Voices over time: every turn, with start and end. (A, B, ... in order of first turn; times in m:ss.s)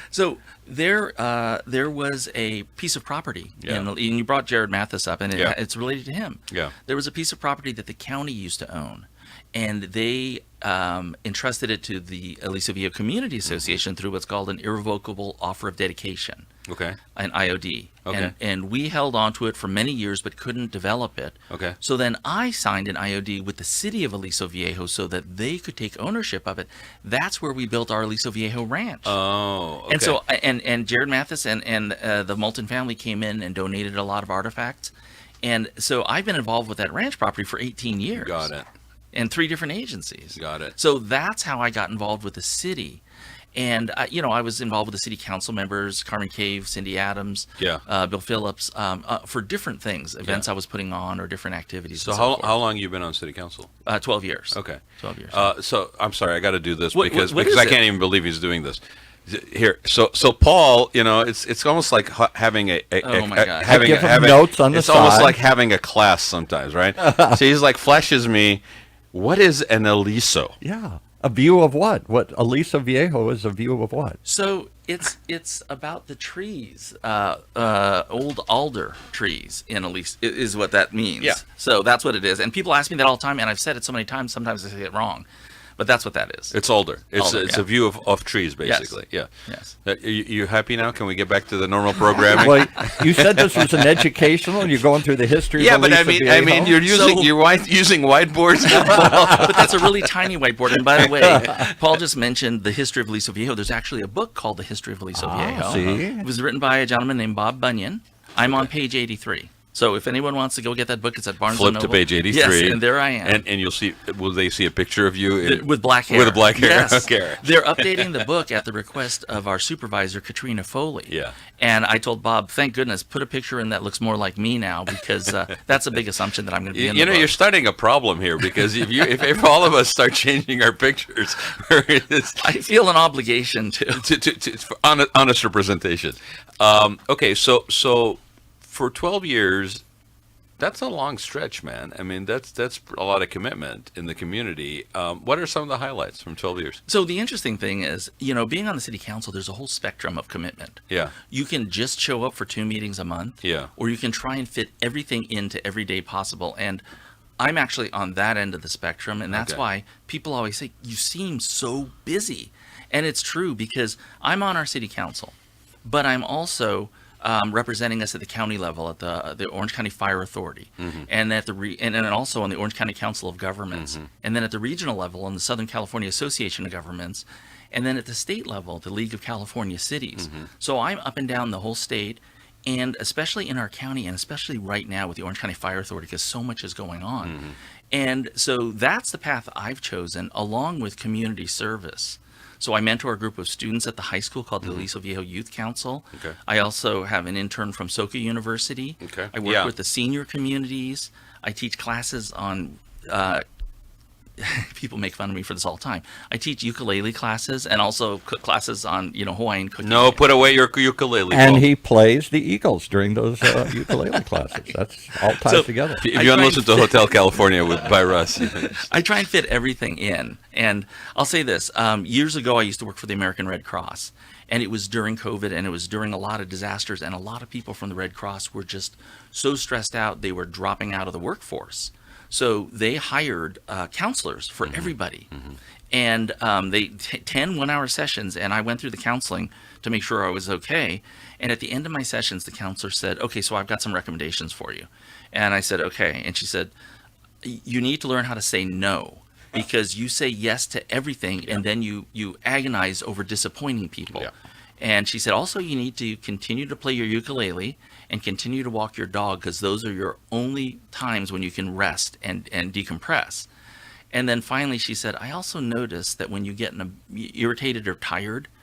0:00.1-0:16.5 A
0:03.6-0:03.9 B
0:13.5-0:13.8 B
0:16.7-0:17.0 B
0:17.2-0:29.2 A
0:18.1-0:18.3 B
0:21.5-0:21.8 B
0:29.1-0:30.2 B
0:29.9-0:38.5 A
0:38.2-0:38.7 B
0:39.1-0:43.0 A
0:40.4-0:40.8 B
0:43.6-0:52.6 A
0:52.0-0:53.7 B
0:53.8-0:55.5 A
0:54.5-1:08.6 B
0:56.9-0:57.8 A
1:03.0-1:03.9 A
1:03.6-1:05.4 C
1:07.0-1:07.4 C
1:09.1-1:10.6 B
1:10.6-1:14.2 C
1:14.2-1:25.3 A
1:25.8-1:26.6 A
1:26.5-1:29.3 B
1:27.2-1:27.6 A
1:28.6-1:29.8 A
1:29.8-1:33.9 B
1:32.3-1:36.8 C
1:35.6-1:40.1 B
1:36.8-1:37.3 A
1:38.7-1:53.4 A
1:45.2-1:46.3 C
1:51.5-1:58.1 B
1:55.4-2:07.3 A
2:01.1-2:01.4 B
2:06.7-2:12.5 B
2:12.4-2:14.0 A
2:14.0-2:19.8 B
2:20.6-2:26.8 B
2:26.9-2:36.8 A
2:33.4-2:33.7 B
2:37.4-3:07.4 A
2:39.3-2:39.6 B
2:50.8-2:51.1 B
2:53.7-2:54.1 B
3:00.2-3:00.5 B
3:07.2-3:07.6 B
3:07.9-3:23.4 A
3:14.6-3:14.9 B
3:19.0-3:19.7 B
3:24.4-3:30.2 A
3:29.8-3:31.7 B
3:31.3-3:36.0 C
3:33.6-3:34.2 A
3:35.3-3:37.4 A
3:36.0-3:38.8 B
3:38.6-3:55.3 A
3:54.6-3:55.6 B
3:55.9-4:06.7 A
4:07.4-4:23.5 A
4:24.1-4:28.5 A